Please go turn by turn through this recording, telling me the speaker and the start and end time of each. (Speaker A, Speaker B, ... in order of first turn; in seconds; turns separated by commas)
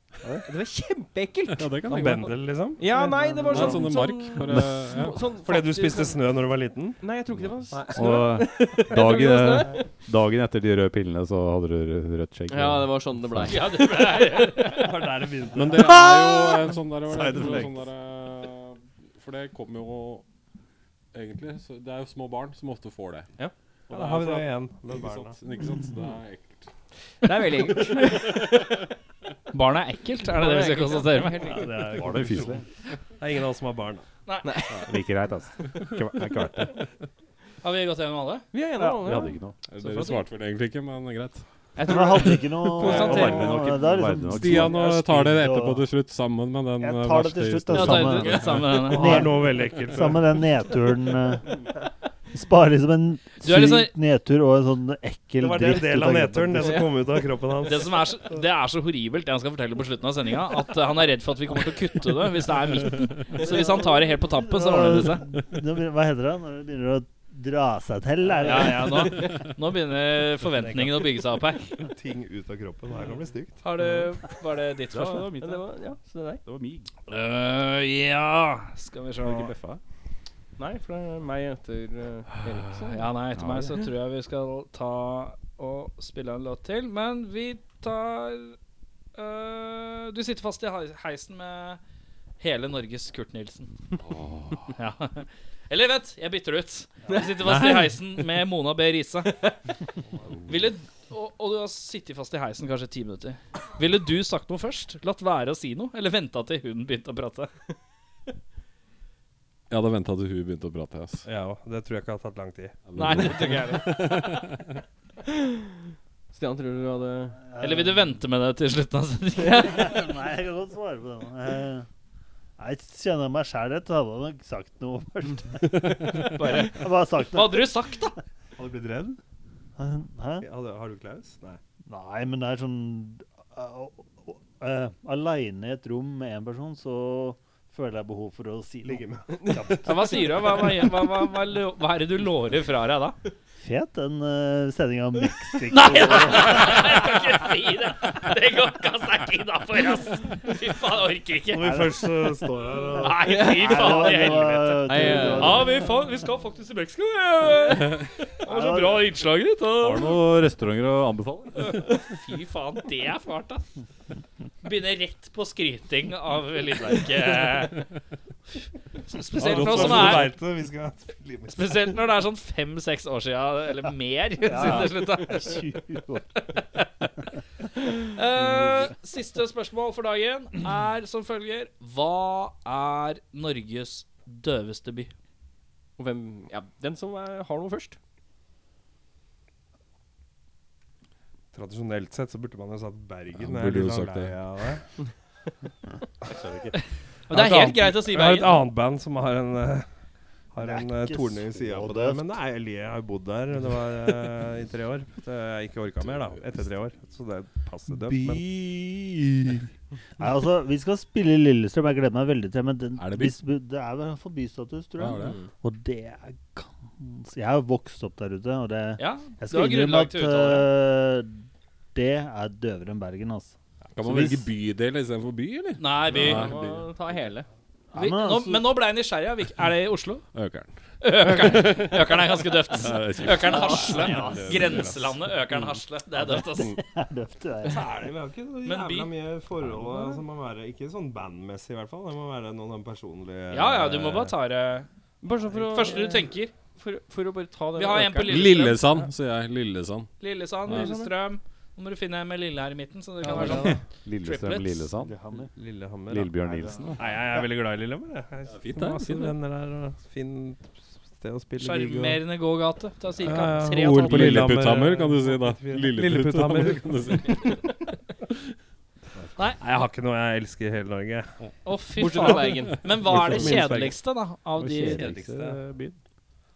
Speaker A: 0.4-1.9, Speaker B: 1.5-2.4, Speaker C: 1.9-2.8, Speaker A: 2.8-6.2, Speaker D: 2.9-3.9, Speaker B: 3.5-5.2, Speaker C: 5.4-7.0, Speaker A: 7.0-9.8, Speaker C: 7.7-8.2, Speaker E: 7.9-13.5, Speaker A: 12.5-14.4, Speaker F: 13.5-15.2, Speaker C: 14.7-16.0, Speaker B: 15.5-20.2, Speaker E: 17.2-17.6, Speaker B: 21.1-23.3, Speaker B: 23.9-26.7, Speaker C: 23.9-25.4, Speaker A: 27.2-28.8, Speaker B: 28.0-28.4, Speaker F: 29.5-31.6, Speaker A: 30.3-31.8, Speaker C: 31.4-32.6, Speaker E: 31.9-32.6, Speaker C: 33.2-34.0, Speaker A: 34.4-34.9, Speaker E: 34.9-36.8, Speaker F: 37.6-38.5, Speaker A: 38.5-40.1, Speaker E: 39.0-39.5, Speaker B: 39.7-41.4, Speaker D: 41.8-45.9, Speaker F: 42.7-43.6, Speaker E: 42.8-44.8, Speaker B: 44.4-48.5, Speaker D: 46.8-51.6, Speaker F: 47.7-49.4, Speaker C: 48.3-50.4, Speaker D: 52.3-56.9, Speaker F: 53.4-53.9, Speaker C: 55.4-58.0, Speaker F: 57.6-65.2, Speaker D: 63.4-63.7, Speaker D: 64.3-69.2, Speaker C: 68.3-69.1, Speaker F: 68.4-71.8, Speaker C: 70.5-71.2, Speaker C: 71.8-73.6, Speaker F: 73.6-75.4, Speaker E: 74.9-75.7, Speaker A: 75.4-76.4, Speaker E: 76.4-76.9, Speaker F: 77.1-79.5, Speaker E: 79.2-79.8, Speaker A: 80.6-83.8, Speaker F: 82.8-88.6, Speaker E: 83.3-83.7, Speaker F: 89.1-91.8, Speaker F: 92.4-93.7, Speaker B: 94.1-94.7, Speaker F: 94.8-99.3, Speaker F: 100.5-107.5, Speaker B: 109.7-111.2, Speaker C: 111.2-112.8, Speaker B: 112.9-114.8, Speaker F: 113.0-113.9, Speaker A: 115.3-115.6, Speaker A: 116.3-117.4, Speaker D: 117.5-118.1, Speaker F: 117.6-120.0, Speaker D: 119.4-121.8, Speaker D: 122.6-127.8, Speaker F: 126.2-128.1, Speaker C: 128.6-129.2, Speaker D: 129.8-130.5, Speaker C: 130.4-131.6, Speaker D: 131.9-140.0, Speaker C: 138.8-139.7, Speaker F: 139.8-143.2, Speaker D: 143.6-147.0, Speaker F: 145.7-151.8, Speaker C: 151.5-153.2, Speaker D: 151.7-152.0, Speaker F: 153.0-160.2, Speaker A: 153.2-153.8, Speaker D: 153.6-156.0, Speaker C: 153.7-154.0, Speaker A: 154.9-155.7, Speaker D: 158.4-159.1, Speaker E: 159.8-161.7, Speaker F: 161.8-163.6, Speaker F: 164.6-167.8, Speaker F: 169.1-170.4, Speaker B: 169.4-170.3, Speaker C: 169.4-171.9, Speaker F: 171.5-175.8, Speaker D: 174.4-176.4, Speaker F: 177.9-185.1, Speaker A: 186.0-188.0, Speaker C: 191.5-194.8, Speaker B: 193.3-194.3, Speaker E: 196.3-196.8, Speaker F: 197.3-198.7, Speaker C: 197.3-199.9, Speaker C: 200.5-208.4, Speaker D: 200.6-202.4, Speaker D: 208.0-209.7, Speaker D: 210.2-221.4, Speaker B: 213.0-213.3, Speaker B: 215.0-215.4, Speaker A: 215.2-215.4, Speaker F: 219.0-220.7, Speaker D: 221.9-223.5, Speaker B: 223.9-226.8, Speaker D: 224.0-224.5, Speaker F: 225.8-226.5, Speaker A: 226.1-227.5, Speaker D: 227.9-228.6, Speaker F: 227.9-230.2, Speaker B: 230.3-230.7, Speaker F: 231.0-236.7, Speaker B: 231.2-232.0, Speaker B: 232.8-233.7, Speaker D: 233.7-234.6, Speaker C: 234.1-235.0, Speaker D: 236.2-237.9, Speaker C: 237.6-244.3, Speaker F: 238.6-239.1, Speaker F: 243.5-244.9, Speaker A: 245.2-248.8, Speaker C: 245.5-246.1, Speaker F: 245.7-246.5, Speaker F: 247.8-248.9, Speaker B: 248.3-250.1, Speaker F: 250.2-254.9, Speaker A: 250.7-251.1, Speaker D: 253.2-253.8, Speaker E: 254.0-255.2, Speaker D: 255.0-255.5, Speaker C: 255.5-256.3, Speaker E: 256.1-257.0, Speaker D: 256.4-257.4, Speaker C: 257.0-262.2, Speaker B: 258.5-259.3, Speaker F: 261.6-264.5, Speaker C: 263.2-267.4, Speaker B: 263.9-267.7, Speaker C: 269.6-271.4, Speaker F: 271.6-275.2, Speaker A: 272.0-272.8, Speaker C: 273.0-274.0, Speaker E: 274.6-275.9, Speaker C: 274.9-275.6